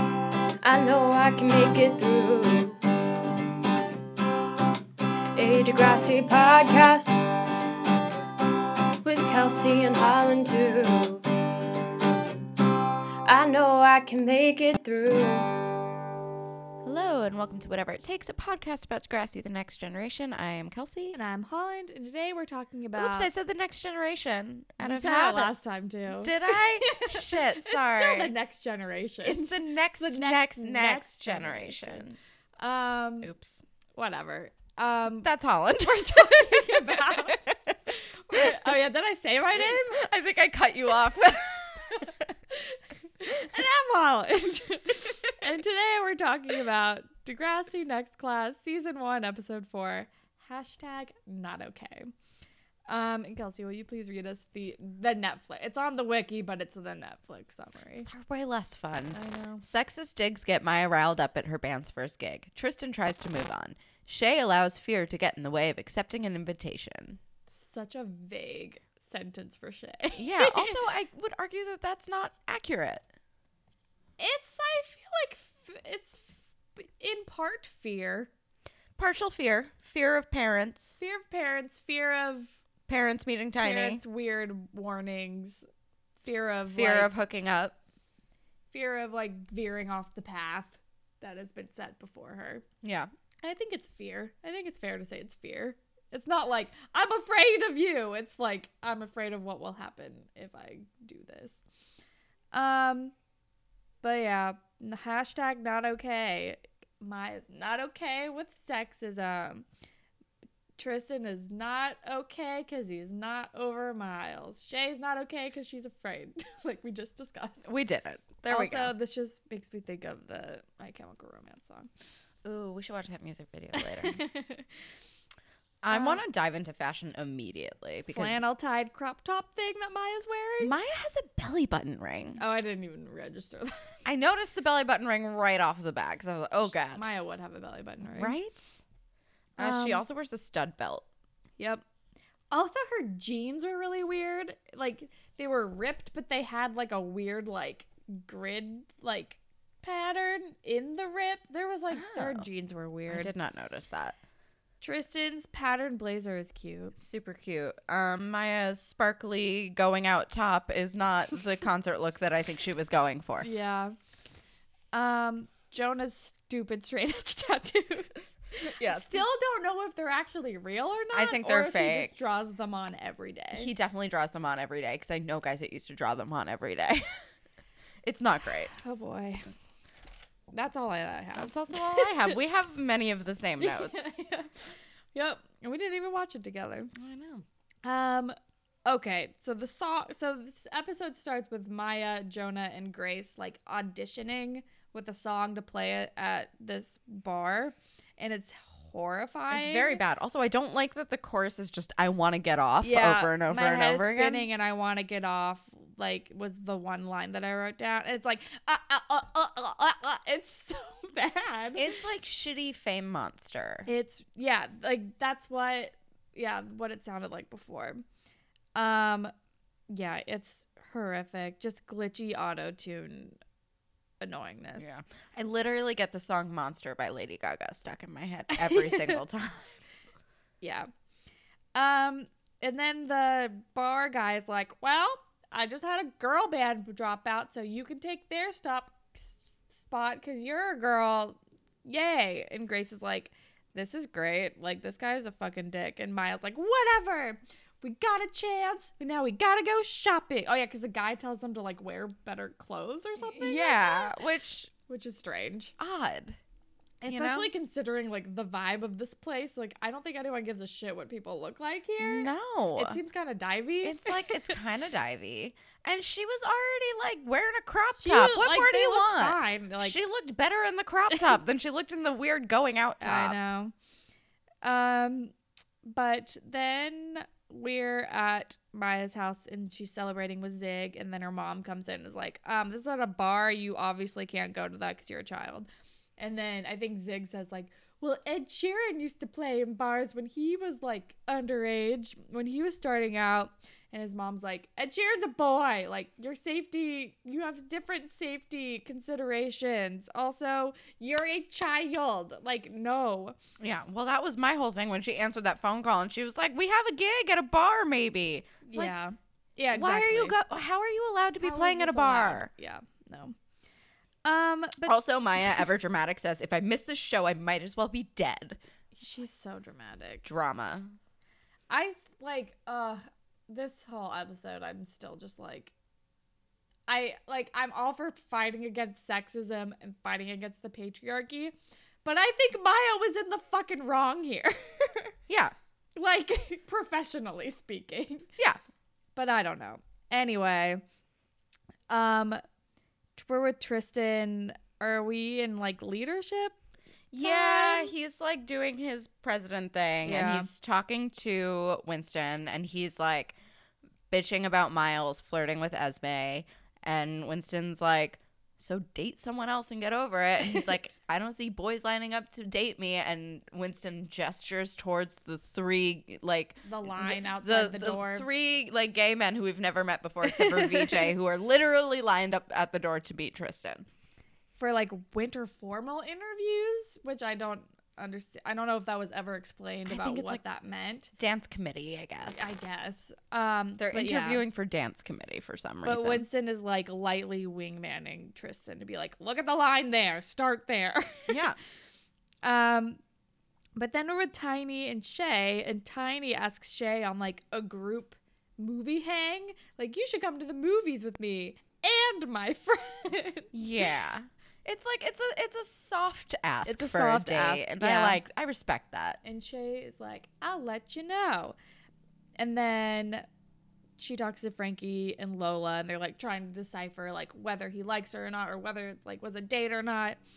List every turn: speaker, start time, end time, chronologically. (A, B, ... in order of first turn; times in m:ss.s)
0:00.6-0:02.8 A
0:05.3-0:07.3 A
0:09.0-0:11.2 A
0:13.2-0:15.5 A
0:16.8-0:21.2 B
0:21.1-0:23.3 C
0:23.0-0:25.5 B
0:24.8-0:32.0 C
0:26.1-0:28.3 B
0:29.2-0:32.2 B
0:32.6-0:33.3 C
0:33.2-0:33.6 B
0:33.9-0:35.3 C
0:35.2-0:37.8 B
0:35.9-0:37.4 C
0:38.3-0:40.1 C
0:38.3-0:38.7 B
0:39.6-0:42.2 B
0:41.9-0:52.1 C
0:52.9-0:58.1 C
0:58.0-1:07.2 B
0:59.1-0:59.6 C
1:07.5-1:10.8 C
1:10.2-1:13.1 B
1:14.2-1:18.3 C
1:19.0-1:21.0 B
1:21.0-1:22.6 C
1:22.9-1:24.0 B
1:23.6-1:25.6 C
1:26.2-1:27.1 C
1:26.7-1:27.8 B
1:28.7-1:32.6 C
1:32.8-1:33.1 B
1:33.4-1:41.6 C
1:42.5-1:43.1 C
1:44.0-1:49.6 C
1:50.8-1:57.7 C
1:57.6-1:58.9 B
1:58.5-2:01.9 C
2:02.4-2:04.2 B
2:03.7-2:04.7 C
2:05.8-2:08.4 B
2:05.9-2:06.2 C
2:08.1-2:10.7 C
2:10.6-2:12.4 B
2:12.4-2:14.0 C
2:14.0-2:17.0 B
2:16.9-2:18.3 C
2:18.0-2:18.8 B
2:19.6-2:21.1 B
2:19.6-2:20.0 C
2:21.6-2:21.8 C
2:22.5-2:33.3 C
2:31.9-2:32.5 B
2:33.1-2:34.2 B
2:34.8-2:36.9 C
2:37.0-2:43.5 B
2:43.4-2:44.0 C
2:44.9-2:53.7 C
2:48.6-2:49.2 B
2:51.1-2:52.1 B
2:53.5-2:57.0 B
2:58.0-2:58.7 B
2:58.7-2:59.5 C
3:00.5-3:02.3 C
3:01.3-3:04.2 B
3:03.6-3:06.9 C
3:06.9-3:07.4 B
3:07.8-3:20.0 C
3:19.5-3:24.5 B
3:22.8-3:31.9 C
3:31.7-3:33.9 B
3:33.9-3:38.0 C
3:38.7-3:39.3 C
3:39.9-3:43.4 C
3:44.2-3:45.0 C
3:44.8-3:49.8 B
3:48.5-3:49.2 C
3:50.6-3:50.9 C
3:51.7-4:14.2 C
4:13.2-4:14.7 B
4:14.9-4:15.7 C
4:15.8-4:16.4 B
4:17.0-4:24.6 C
4:17.1-4:17.5 B
4:22.0-4:23.0 B
4:23.8-4:33.4 B
4:28.0-4:30.0 C
4:33.0-4:33.7 C
4:34.6-4:45.7 C
4:46.2-5:03.4 C
5:03.6-5:08.9 B
5:08.6-5:10.4 C
5:09.7-5:12.5 B
5:11.4-5:13.3 C
5:14.2-5:15.0 C
5:14.8-5:18.6 B
5:18.9-5:20.2 C
5:20.2-5:21.0 B
5:21.7-5:25.7 C
5:26.9-5:35.1 C
5:35.3-5:35.5 B
5:36.0-5:38.3 C
5:39.2-5:40.8 C
5:41.9-5:42.4 C
5:43.2-5:46.5 C
5:47.1-5:53.4 B
5:47.2-5:47.9 C
5:50.0-5:50.5 C
5:54.1-6:13.9 B
6:06.6-6:08.2 C
6:10.2-6:11.1 C
6:14.6-6:21.1 C
6:19.8-6:20.4 B
6:21.2-6:22.6 B
6:22.3-6:24.4 C
6:23.8-6:26.2 B
6:25.8-6:31.5 C
6:31.3-6:31.6 B
6:32.4-6:33.0 C
6:33.8-6:43.5 C
6:43.5-6:49.2 B
6:46.6-6:48.2 C
6:49.2-6:51.6 C
6:52.4-6:53.2 C
6:54.0-7:00.2 C